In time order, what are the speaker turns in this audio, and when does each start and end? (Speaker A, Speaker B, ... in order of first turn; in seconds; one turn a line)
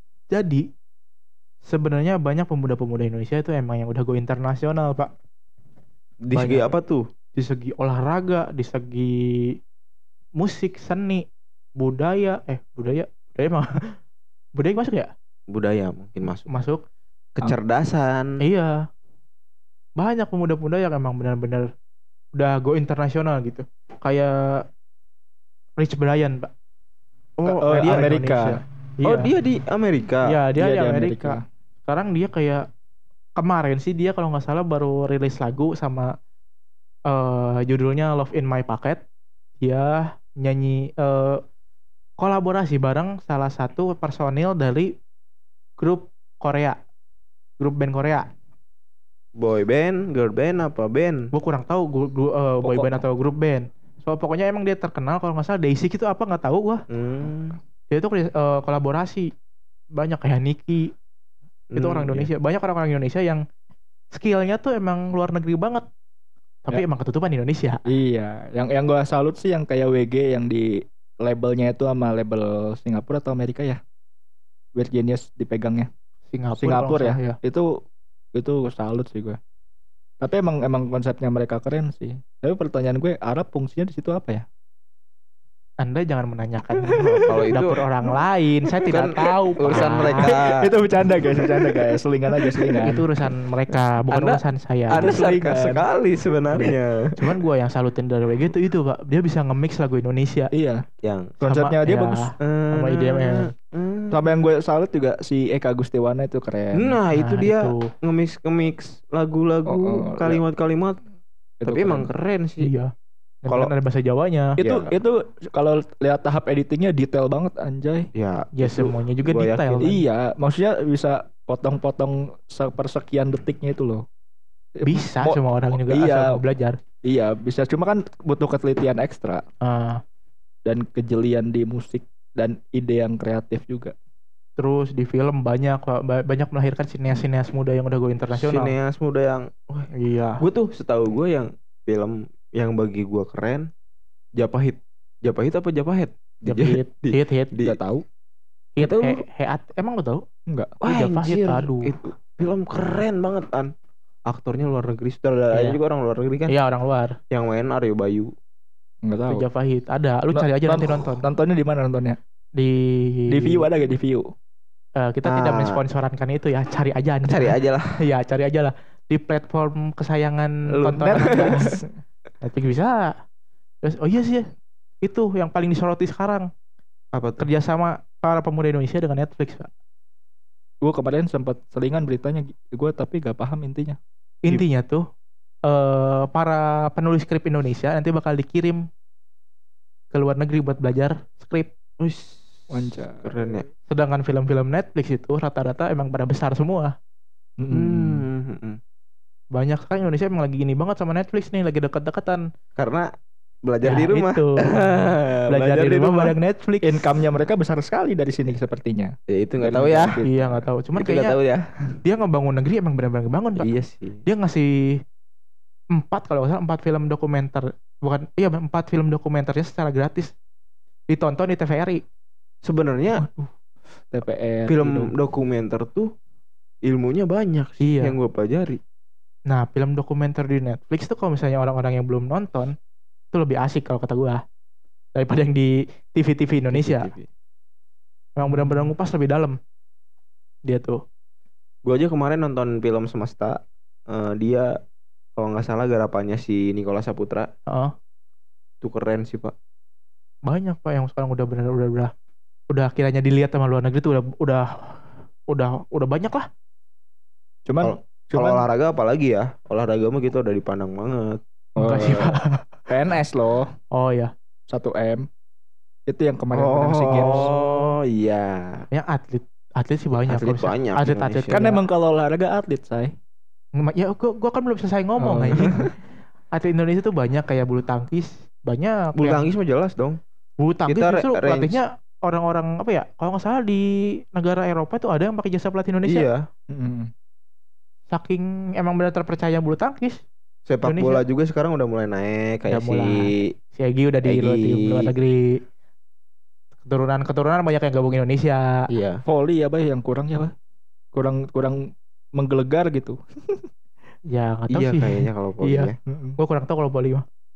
Speaker A: 0.3-0.7
Speaker A: 1.6-5.1
Speaker B: 6.2-7.1
Speaker A: 6.3-6.7
Speaker A: 7.3-9.6
Speaker A: 10.4-11.2
Speaker A: 11.8-13.9
Speaker A: 14.6-15.1
Speaker B: 15.5-16.5
Speaker A: 16.5-16.8
Speaker B: 17.4-18.3
Speaker A: 18.4-18.7
Speaker A: 20.0-21.7
Speaker A: 22.3-24.6
Speaker A: 25.8-26.5
Speaker B: 27.4-28.1
Speaker A: 27.6-29.3
Speaker C: 27.6-28.6
Speaker B: 29.0-30.4
Speaker A: 30.2-32.6
Speaker C: 30.6-31.4
Speaker A: 33.4-36.1
Speaker A: 37.1-39.0
Speaker A: 39.6-41.4
Speaker A: 42.2-44.9
Speaker A: 45.8-46.8
Speaker A: 47.6-48.3
Speaker B: 49.4-51.3
Speaker A: 51.3-56.8
Speaker C: 52.6-53.0
Speaker B: 56.9-57.6
Speaker A: 57.9-59.3
Speaker A: 59.9-60.9
Speaker B: 61.7-62.3
Speaker A: 61.8-63.4
Speaker A: 64.1-65.8
Speaker A: 66.7-67.8
Speaker C: 67.9-73.8
Speaker C: 74.8-75.9
Speaker A: 76.3-77.4
Speaker C: 76.6-77.7
Speaker C: 78.3-79.4
Speaker C: 80.2-84.4
Speaker A: 85.8-90.3
Speaker C: 86.9-87.2
Speaker B: 87.2-87.8
Speaker B: 88.9-90.7
Speaker C: 89.7-93.0
Speaker B: 91.3-91.8
Speaker B: 92.5-93.0
Speaker A: 92.8-95.1
Speaker B: 93.7-97.1
Speaker C: 94.9-95.8
Speaker A: 97.2-100.5
Speaker C: 100.5-100.8
Speaker B: 101.0-101.4
Speaker C: 101.4-102.2
Speaker A: 101.5-103.5
Speaker B: 102.4-104.3
Speaker C: 104.1-107.0
Speaker B: 106.7-111.0
Speaker A: 107.1-107.9
Speaker C: 109.7-110.4
Speaker C: 111.6-112.1
Speaker B: 111.7-112.7
Speaker A: 112.6-112.9
Speaker A: 113.4-114.6
Speaker C: 114.6-118.1
Speaker B: 114.6-115.0
Speaker B: 118.1-119.8
Speaker A: 118.6-120.0
Speaker C: 119.8-124.0
Speaker C: 124.8-126.3
Speaker A: 124.8-126.8
Speaker C: 127.0-129.4
Speaker A: 129.6-130.0
Speaker C: 130.7-133.9
Speaker A: 134.6-138.7
Speaker B: 138.3-139.9
Speaker A: 139.9-140.4
Speaker B: 140.4-143.7
Speaker B: 144.4-147.8
Speaker A: 146.4-147.5
Speaker C: 147.6-148.0
Speaker A: 148.8-150.2
Speaker B: 148.8-149.2
Speaker B: 150.8-153.7
Speaker A: 150.8-151.9
Speaker B: 154.3-156.5
Speaker A: 155.5-155.8
Speaker A: 156.5-157.2
Speaker B: 157.3-158.3
Speaker C: 159.0-159.4
Speaker A: 159.3-161.2
Speaker C: 160.3-162.2
Speaker A: 162.6-163.6
Speaker C: 163.3-164.3
Speaker A: 165.0-171.8
Speaker B: 165.2-165.8
Speaker B: 167.3-168.0
Speaker B: 170.7-171.6
Speaker C: 170.8-171.9
Speaker A: 172.4-173.1
Speaker A: 173.8-174.5
Speaker A: 175.0-176.5
Speaker B: 177.1-177.5
Speaker A: 177.4-179.7
Speaker C: 180.8-184.0
Speaker A: 184.4-185.0
Speaker A: 185.7-188.8
Speaker A: 190.1-191.7
Speaker B: 192.0-193.7
Speaker C: 192.7-193.3
Speaker A: 193.9-196.9
Speaker C: 197.6-198.2
Speaker B: 197.7-198.8
Speaker A: 199.5-202.4
Speaker B: 202.8-203.1
Speaker B: 203.6-206.3
Speaker A: 203.8-207.0
Speaker C: 206.8-210.6
Speaker B: 209.3-210.2
Speaker A: 210.2-211.3
Speaker B: 210.9-211.9
Speaker A: 212.0-213.7
Speaker B: 213.6-214.2
Speaker A: 214.2-215.0
Speaker A: 215.9-220.3
Speaker A: 221.1-222.0
Speaker B: 222.6-223.2
Speaker C: 223.2-223.5
Speaker C: 224.1-225.1
Speaker B: 224.7-226.1
Speaker B: 226.8-228.8
Speaker A: 227.8-228.1
Speaker A: 229.5-232.7
Speaker A: 233.3-234.4
Speaker A: 235.1-237.1
Speaker B: 236.7-237.3
Speaker A: 238.4-239.6
Speaker A: 240.7-241.0
Speaker B: 241.8-244.7
Speaker B: 245.3-247.5
Speaker A: 247.7-247.9
Speaker B: 248.8-249.5
Speaker A: 250.4-252.1
Speaker A: 252.7-256.5
Speaker C: 257.7-258.6
Speaker B: 257.8-261.4
Speaker C: 261.8-262.2
Speaker A: 261.8-262.7
Speaker B: 261.9-262.2
Speaker C: 262.9-263.7
Speaker A: 263.9-264.3
Speaker C: 264.7-265.2
Speaker C: 266.1-267.5
Speaker B: 266.5-268.9
Speaker A: 267.1-267.8
Speaker A: 268.9-271.8
Speaker B: 270.3-271.6
Speaker C: 271.5-273.1
Speaker A: 273.8-275.9
Speaker C: 275.2-275.9
Speaker A: 276.5-279.4
Speaker B: 279.1-280.2
Speaker A: 280.6-286.3
Speaker B: 280.9-281.8
Speaker B: 286.0-286.5
Speaker C: 286.7-287.1
Speaker A: 288.1-290.2
Speaker B: 290.7-293.5
Speaker A: 290.8-291.2
Speaker A: 292.7-295.6
Speaker B: 294.2-295.1
Speaker A: 296.8-298.9
Speaker B: 298.9-299.2
Speaker C: 299.2-300.5
Speaker C: 301.1-301.8
Speaker C: 302.4-303.6
Speaker A: 304.3-307.2
Speaker B: 304.7-305.9
Speaker C: 306.1-306.4